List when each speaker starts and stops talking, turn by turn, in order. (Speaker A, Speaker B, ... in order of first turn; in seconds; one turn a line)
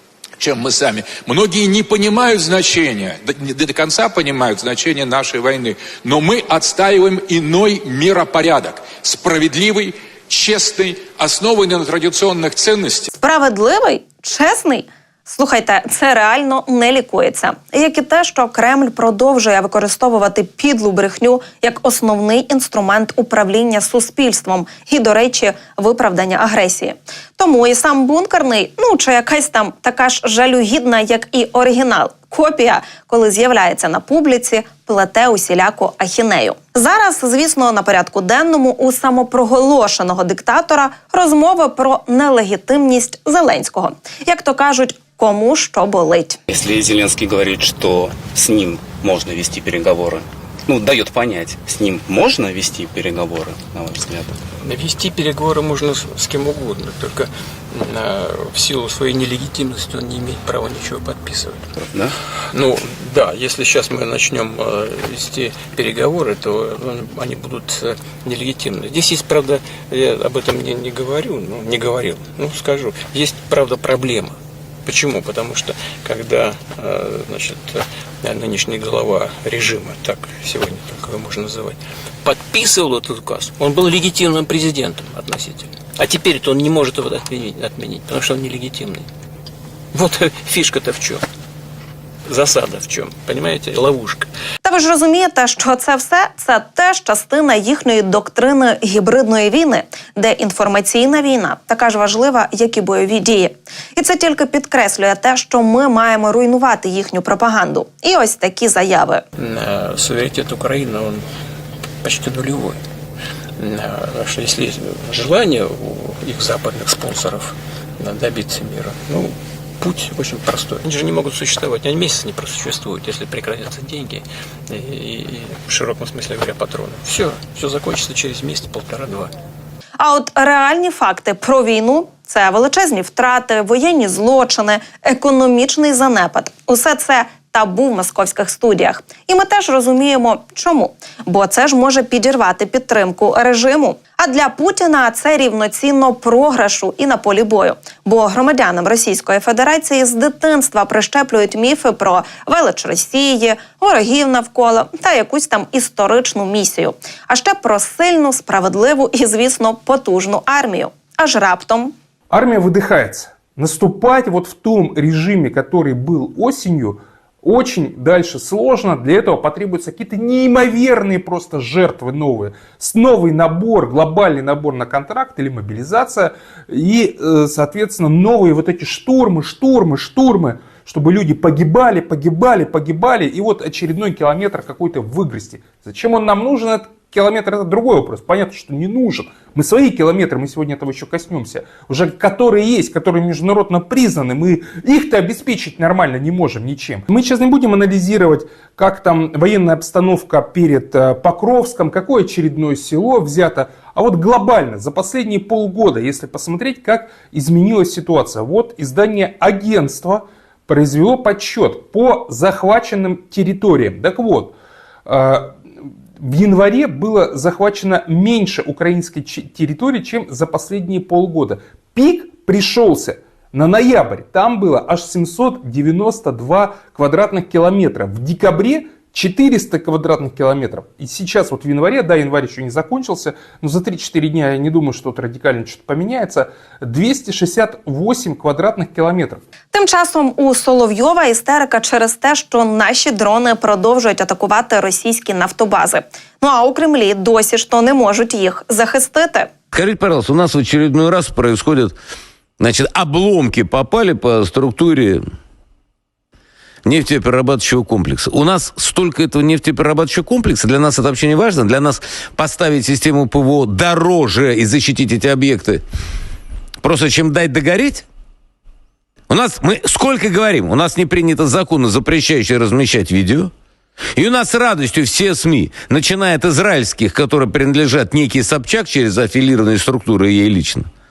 Speaker A: 0.4-13.1
Speaker B: 13.1-46.4
Speaker C: 46.5-54.3
Speaker D: 54.6-61.7
Speaker C: 61.8-62.1
Speaker D: 62.5-74.3
Speaker D: 74.9-89.1
Speaker D: 89.9-91.2
Speaker D: 92.3-94.3
Speaker B: 94.6-109.2
Speaker D: 109.4-111.2
Speaker D: 112.0-112.8
Speaker D: 113.6-129.3
Speaker B: 130.0-161.9
Speaker E: 162.3-214.5
Speaker E: 215.1-215.5
Speaker E: 216.2-239.4
Speaker B: 239.7-249.5
Speaker F: 249.7-252.0
Speaker F: 252.6-255.2
Speaker F: 256.9-265.8
Speaker F: 266.8-268.1
Speaker F: 269.3-273.5
Speaker F: 274.1-280.9